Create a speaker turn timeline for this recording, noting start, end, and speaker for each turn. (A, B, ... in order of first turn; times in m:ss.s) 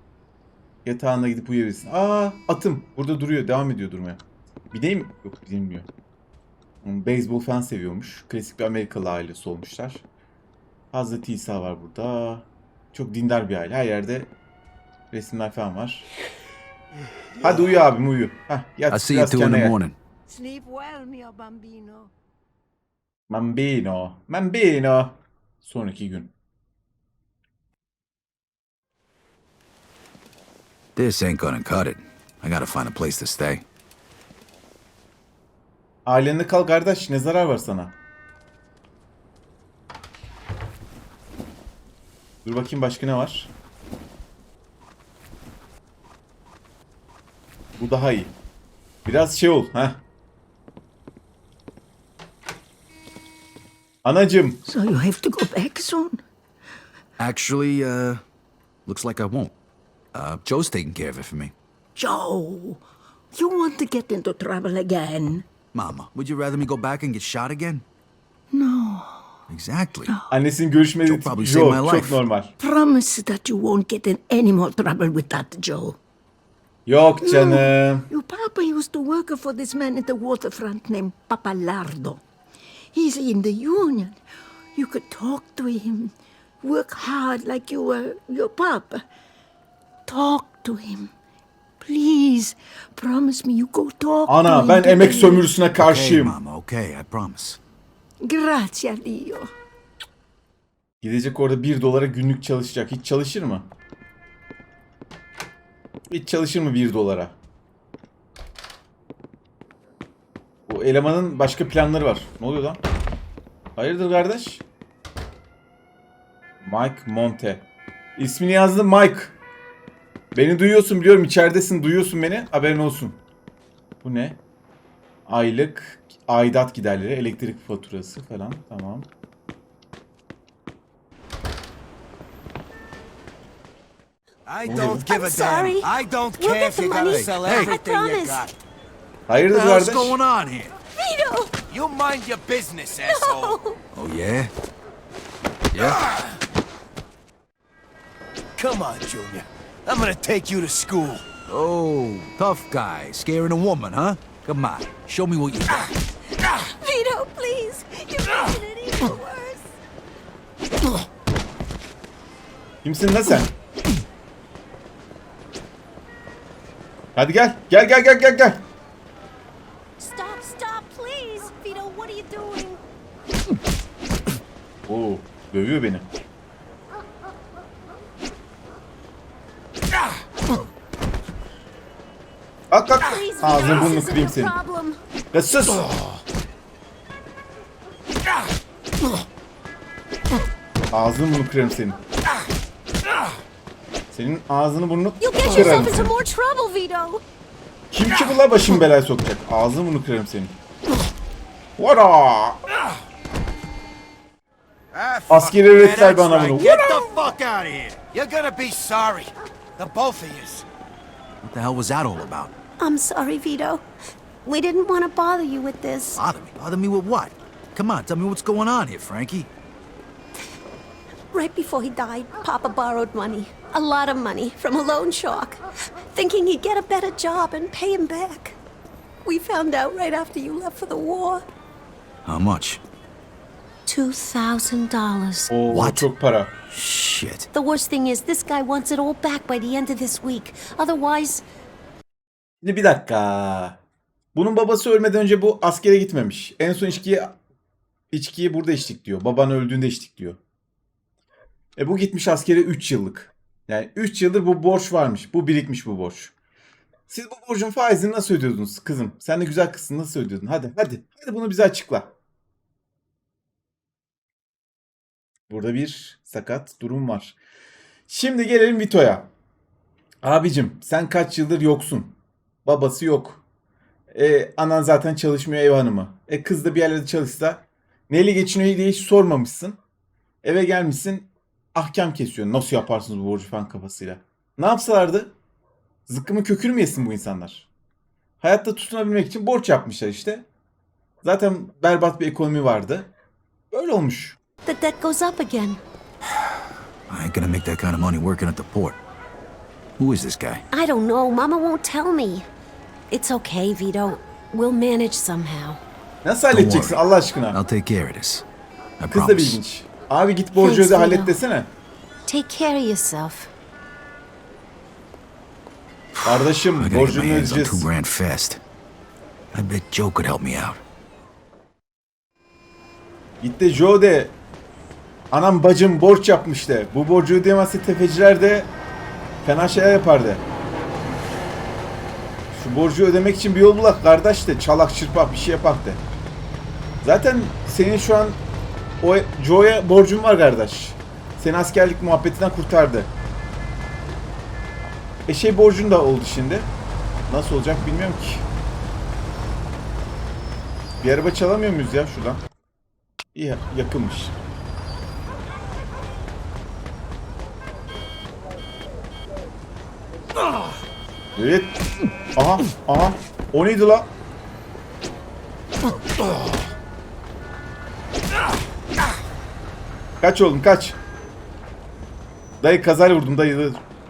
0:00.8-0:04.2 A
0:04.7-0:05.9 A
0:06.8-0:10.0 A
0:10.9-0:14.3 A
0:15.1-0:16.1 A
0:17.4-0:19.8 A
0:18.9-0:20.0 B
0:20.3-0:22.1 C
0:23.3-0:26.3 A
0:31.0-0:33.6 B
0:36.1-0:37.9 A
0:42.4-0:43.5 A
0:47.8-0:48.3 A
0:49.1-0:50.0 A
0:54.0-0:54.6 A
0:54.7-0:56.2 C
0:57.2-0:58.2 B
0:58.9-0:59.5 B
1:00.1-1:01.5 B
1:02.0-1:02.8 C
1:03.3-1:05.5 C
1:05.7-1:07.8 B
1:08.5-1:09.3 C
1:09.5-1:10.1 B
1:10.3-1:12.5 A
1:11.1-1:12.2 B
1:12.6-1:16.0 C
1:16.9-1:18.1 A
1:17.2-1:22.2 C
1:22.9-1:24.2 C
1:24.8-1:29.0 C
1:30.1-1:31.1 C
1:31.8-1:35.5 C
1:34.3-1:36.4 A
1:35.8-1:37.6 B
1:38.2-1:39.5 C
1:41.0-1:43.7 A
1:46.1-1:47.4 A
1:50.7-1:52.8 A
1:53.8-1:54.6 A
1:56.6-1:57.6 A
1:58.2-1:59.4 A
2:00.4-2:03.2 A
2:04.0-2:04.4 A
2:05.3-2:09.1 A
2:14.5-2:18.5 D
2:14.6-2:15.1 A
2:14.9-2:18.5 E
2:17.0-2:17.8 B
2:19.3-2:20.2 A
2:19.5-2:20.7 B
2:21.0-2:21.5 E
2:21.7-2:23.6 D
2:23.1-2:23.8 E
2:23.9-2:24.5 B
2:25.7-2:26.0 B
2:28.6-2:31.2 D
2:31.5-2:35.9 B
2:36.4-2:39.6 C
2:36.9-2:39.6 E
2:42.8-2:43.5 A
2:47.2-2:48.6 A
2:50.0-2:52.8 E
2:54.9-2:56.1 A
3:02.7-3:04.6 A
3:03.0-3:05.0 E
3:05.3-3:05.9 A
3:10.9-3:12.0 A
3:14.1-3:16.2 A
3:15.2-3:17.2 E
3:17.9-3:20.6 A
3:21.8-3:22.6 A
3:24.9-3:30.6 D
3:25.3-3:27.0 A
3:31.4-3:32.5 B
3:32.8-3:33.9 E
3:34.4-3:36.2 E
3:36.2-3:39.5 B
3:41.3-3:48.6 E
3:49.2-3:51.4 E
3:52.2-3:52.8 B
3:53.9-3:55.5 E
3:55.5-3:56.5 A
3:55.7-3:56.1 B
3:56.7-3:57.5 B
3:57.5-4:01.4 E
4:02.6-4:03.8 A
4:04.4-4:07.4 A
4:08.1-4:10.4 A
4:11.8-4:16.3 A
4:17.1-4:22.1 A
4:25.5-4:27.4 A
4:28.1-4:29.3 A
4:30.2-4:32.1 A
4:32.6-4:33.4 A
4:34.1-4:39.8 A
4:40.4-4:45.3 A
4:46.1-4:47.7 A
4:48.4-4:50.4 A
4:51.2-4:53.1 A
4:53.7-4:54.4 A
4:54.6-4:55.8 E
4:57.1-4:59.0 B
5:00.0-5:00.6 B
5:00.7-5:02.5 E
5:03.1-5:05.8 E
5:06.2-5:07.6 A
5:06.5-5:08.4 B
5:09.0-5:09.6 B
5:09.1-5:11.7 A
5:10.6-5:11.4 E
5:12.3-5:13.5 E
5:16.1-5:18.6 B
5:16.2-5:17.9 A
5:19.5-5:20.8 B
5:23.4-5:24.4 A
5:25.3-5:28.7 A
5:29.4-5:30.4 A
5:32.5-5:36.0 A
5:37.0-5:38.4 A
5:39.0-5:43.1 A
5:45.3-5:46.7 A
5:47.3-5:48.5 A
5:51.0-5:52.4 A
5:53.3-5:54.4 A
6:01.4-6:01.8 A
6:02.4-6:04.1 A
6:10.2-6:11.0 A
6:12.6-6:13.8 A